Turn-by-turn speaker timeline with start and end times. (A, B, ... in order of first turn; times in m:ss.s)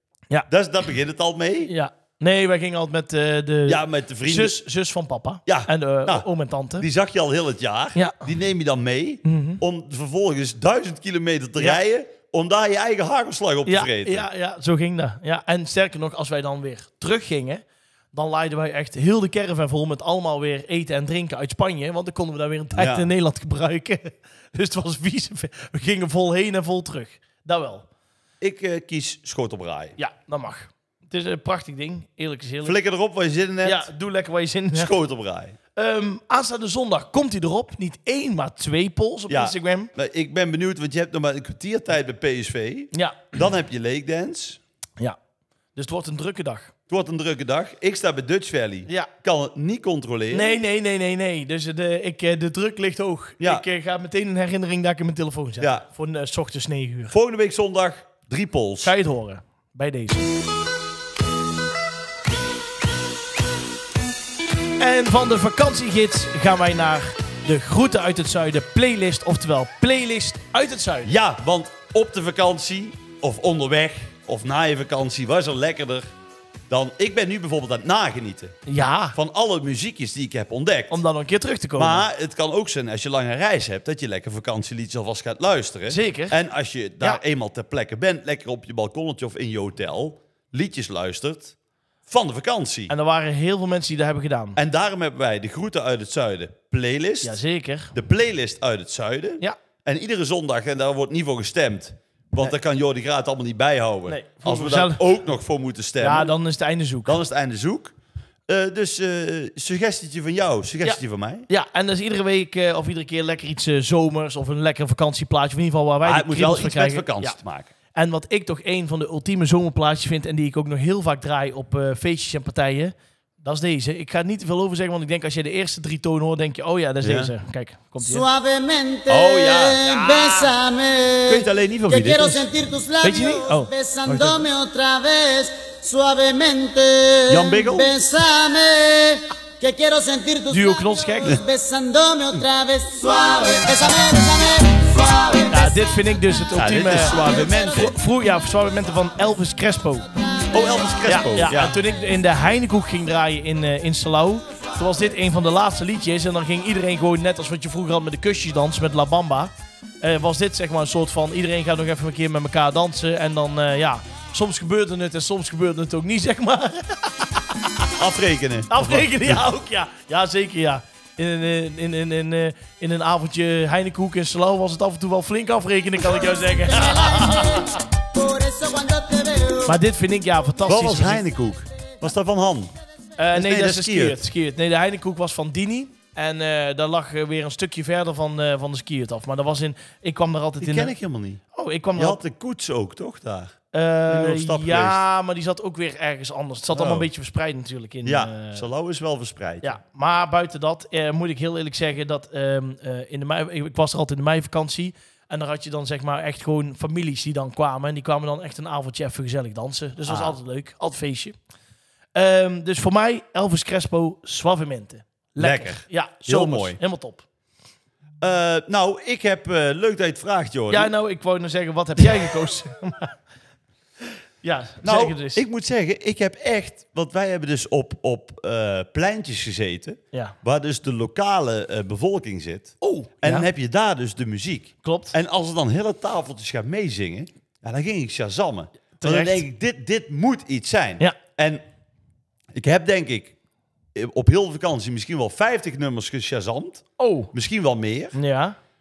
0:00.5-0:01.7 A
0:01.6-0:06.8 B
0:03.6-0:04.6 A
0:05.4-0:14.3 A
0:07.9-0:08.2 B
0:09.2-0:09.6 B
0:13.6-0:27.8 B
0:22.7-0:23.1 A
0:28.4-0:30.0 A
0:30.0-0:32.8 B
0:32.6-0:33.9 A
0:33.6-0:34.9 B
0:34.7-0:35.6 A
0:35.8-0:39.9 B
0:39.3-0:44.6 A
0:42.9-0:43.3 B
0:45.8-0:46.7 B
0:46.9-0:50.6 A
0:50.3-0:57.1 B
0:53.4-0:53.6 A
0:55.6-0:55.8 A
0:57.1-0:58.9 A
0:58.8-1:00.4 B
1:04.8-1:11.1 B
1:11.0-1:16.1 A
1:16.7-1:18.6 A
1:18.7-1:19.2 B
1:19.1-1:21.0 A
1:20.9-1:22.1 B
1:21.8-1:31.5 A
1:25.9-1:26.4 B
1:32.0-1:32.9 A
1:32.9-1:34.6 B
1:34.6-1:37.4 A
1:37.2-1:37.9 B
1:37.9-1:46.3 A
1:44.1-1:45.0 B
1:46.0-1:47.2 B
1:47.0-1:47.9 A
1:48.5-1:51.5 A
1:50.8-1:57.4 B
1:56.0-1:57.7 A
1:57.9-2:08.2 B
2:07.0-2:07.3 A
2:08.0-2:25.7 C
2:09.1-2:10.5 A
2:11.2-2:12.5 A
2:13.0-2:14.5 B
2:17.3-2:17.9 A
2:20.5-2:21.4 B
2:25.5-2:30.1 B
2:26.5-2:27.9 A
2:30.5-2:31.8 A
2:31.0-2:47.3 B
2:48.0-2:49.4 A
2:48.7-2:57.8 B
2:56.6-2:59.8 C
2:59.6-3:01.2 B
3:00.6-3:02.7 A
3:03.2-3:10.9 B
3:03.3-3:04.2 A
3:10.6-3:11.4 A
3:11.5-3:12.2 B
3:12.0-3:15.0 A
3:13.7-3:18.6 B
3:16.7-3:17.1 A
3:18.0-3:19.8 A
3:19.6-3:31.3 B
3:30.0-3:30.4 A
3:32.1-3:37.2 B
3:35.4-3:36.8 A
3:38.2-3:40.9 A
3:40.7-3:43.2 B
3:44.4-3:45.4 B
3:44.8-4:01.6 A
3:52.8-3:53.5 B
3:54.8-3:55.1 B
3:59.0-3:59.4 B
4:02.5-4:03.4 A
4:03.9-4:08.2 A
4:07.0-4:07.3 B
4:08.1-4:08.6 B